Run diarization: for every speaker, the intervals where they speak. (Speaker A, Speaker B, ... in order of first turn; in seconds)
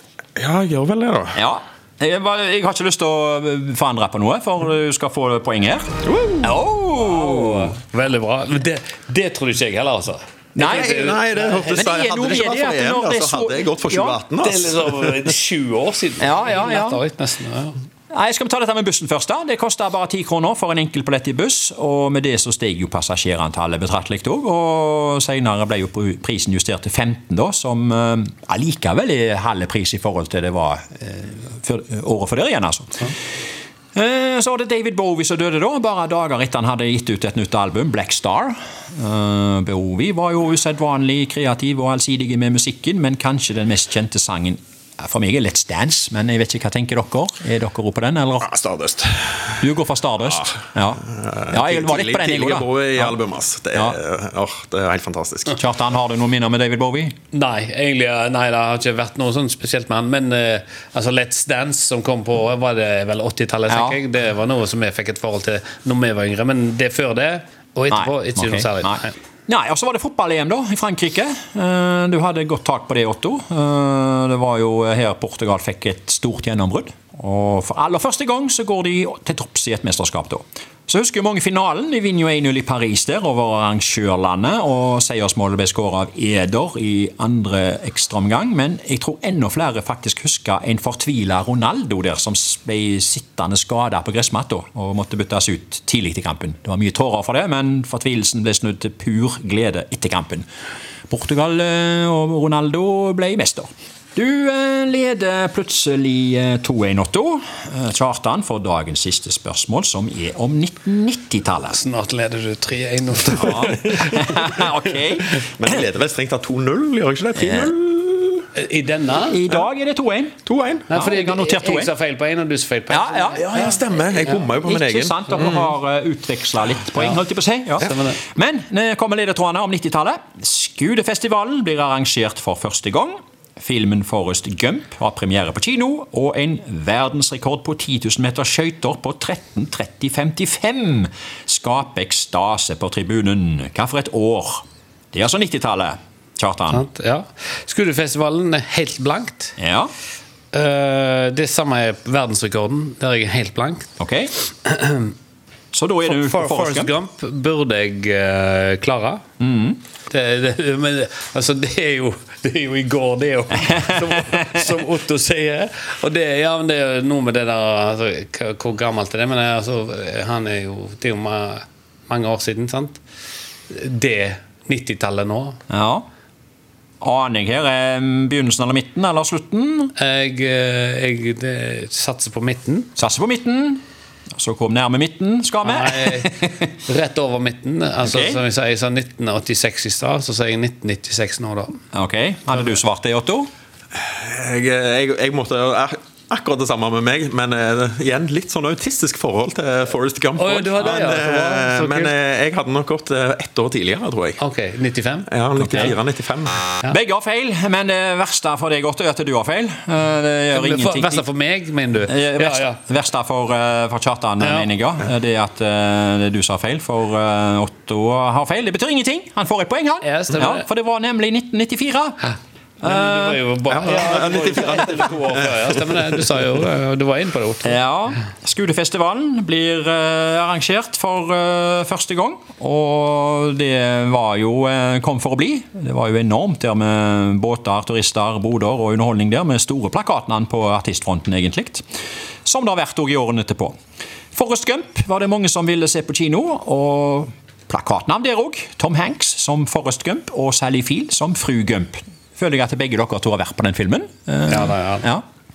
Speaker A: 0.4-1.4, 6.0-6.5, 10.6-14.9, 48.4-49.7, 50.3-55.6, 115.6-118.5, 120.5-120.9, 123.5-125.7, 193.9-204.4, 205.3-206.6, 223.7-226.0
Speaker B: 1.3-7.8, 10.6-11.2, 11.7-14.2, 16.2-17.0, 18.1-33.1, 34.0-48.6, 49.6-53.2, 53.7-54.0, 55.5-57.1, 63.7-64.0, 67.9-100.5, 101.1-111.8, 113.4-115.9, 117.4-117.7, 119.3-120.4, 120.9-121.9, 122.9-123.5, 124.5-146.9, 149.6-149.9, 154.0-154.3, 155.7-156.9, 159.4-159.8, 163.6-164.6, 175.7-176.1, 177.0-179.9, 183.0-183.8, 184.4-186.7, 188.0-188.4, 191.9-193.5, 205.6-206.0, 206.9-211.3, 212.1-222.2, 222.8-223.4, 227.6-241.8, 242.4-243.7, 244.3-255.2
Speaker C: 6.9-11.9, 14.4-17.8, 57.3-69.1, 111.7-114.6, 118.5-119.4, 120.9-124.5, 127.0-127.2, 127.8-128.2, 146.7-149.6, 150.5-153.9, 154.6-155.1, 156.1-159.2, 160.1-173.0, 173.7-175.6, 180.0-182.9, 185.6-191.8, 200.4-202.1, 204.4-205.9, 210.5-212.8, 214.4-214.7, 220.0-220.7, 222.8-227.8, 254.5-255.1